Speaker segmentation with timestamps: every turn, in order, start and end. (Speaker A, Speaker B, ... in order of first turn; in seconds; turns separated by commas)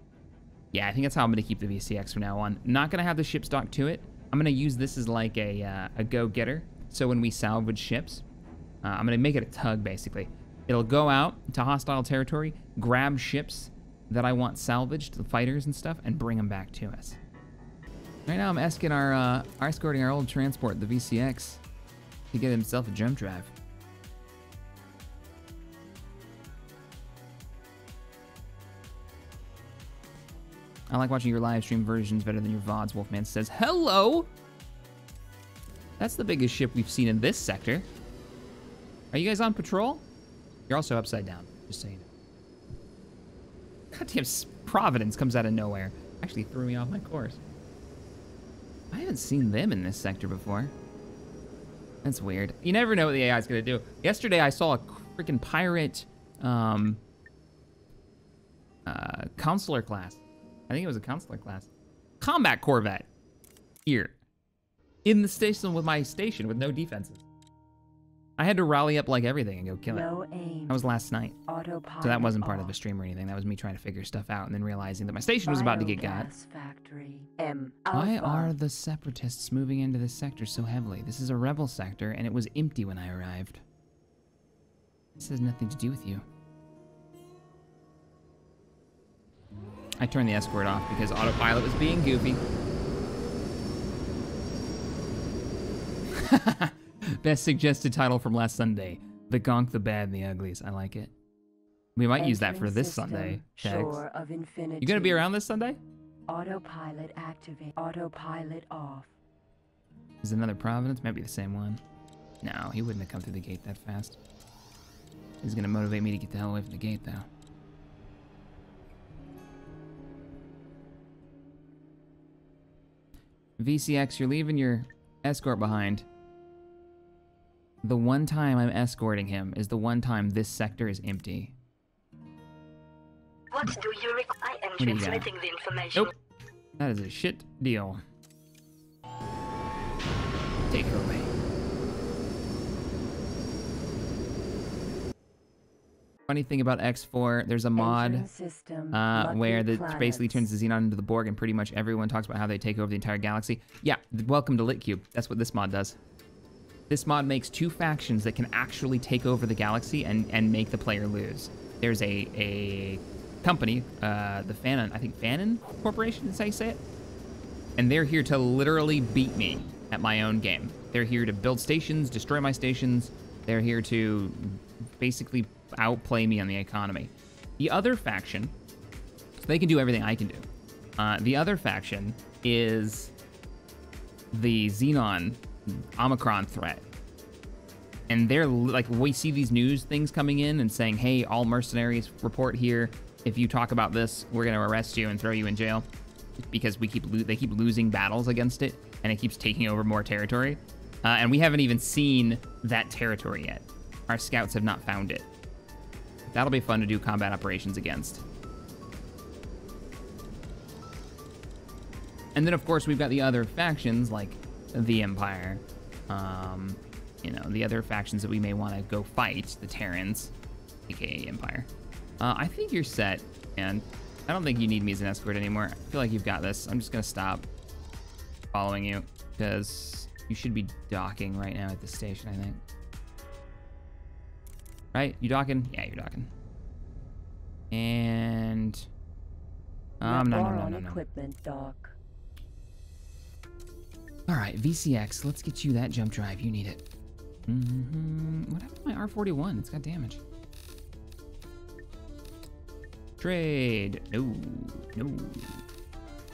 Speaker A: 0.7-8.2, Speaker A: 8.8-17.2, Speaker A: 18.3-21.6, Speaker A: 22.3-23.5, Speaker A: 30.9-34.3, Speaker A: 36.0-37.9, Speaker A: 39.1-40.0, Speaker A: 40.7-42.0, Speaker A: 43.9-47.4, Speaker A: 48.9-50.7, Speaker A: 52.0-57.0, Speaker A: 58.9-61.7, Speaker A: 62.2-63.1, Speaker A: 63.9-64.1, Speaker A: 65.0-67.2, Speaker A: 68.4-70.1, Speaker B: 69.9-70.8, Speaker A: 70.7-71.4, Speaker B: 71.5-72.8, Speaker A: 72.0-76.3, Speaker B: 75.5-78.5, Speaker A: 77.9-83.6, Speaker A: 85.2-86.2, Speaker A: 90.0-92.4, Speaker A: 96.1-101.1, Speaker A: 102.0-104.0, Speaker B: 102.2-105.2, Speaker A: 104.8-105.8, Speaker B: 106.3-109.1, Speaker A: 110.2-111.8, Speaker A: 112.4-114.2, Speaker A: 115.4-117.3, Speaker A: 123.6-126.1, Speaker A: 127.8-131.5, Speaker C: 133.5-136.1, Speaker A: 134.8-135.3, Speaker A: 136.8-138.0, Speaker A: 140.7-141.3, Speaker A: 146.3-148.3, Speaker B: 147.8-150.5, Speaker A: 148.9-156.0, Speaker A: 156.9-166.8, Speaker A: 167.8-178.5, Speaker A: 179.4-180.4, Speaker A: 181.0-183.1, Speaker A: 184.3-186.9, Speaker A: 188.1-195.9, Speaker A: 196.4-205.3, Speaker A: 206.3-208.2, Speaker A: 212.3-220.3, Speaker A: 220.9-221.7, Speaker A: 222.2-227.5, Speaker A: 228.5-232.6, Speaker A: 234.9-236.3, Speaker A: 237.7-238.9, Speaker A: 240.0-241.0, Speaker B: 240.0-242.0, Speaker A: 244.3-246.8, Speaker A: 247.5-250.2, Speaker A: 253.2-255.6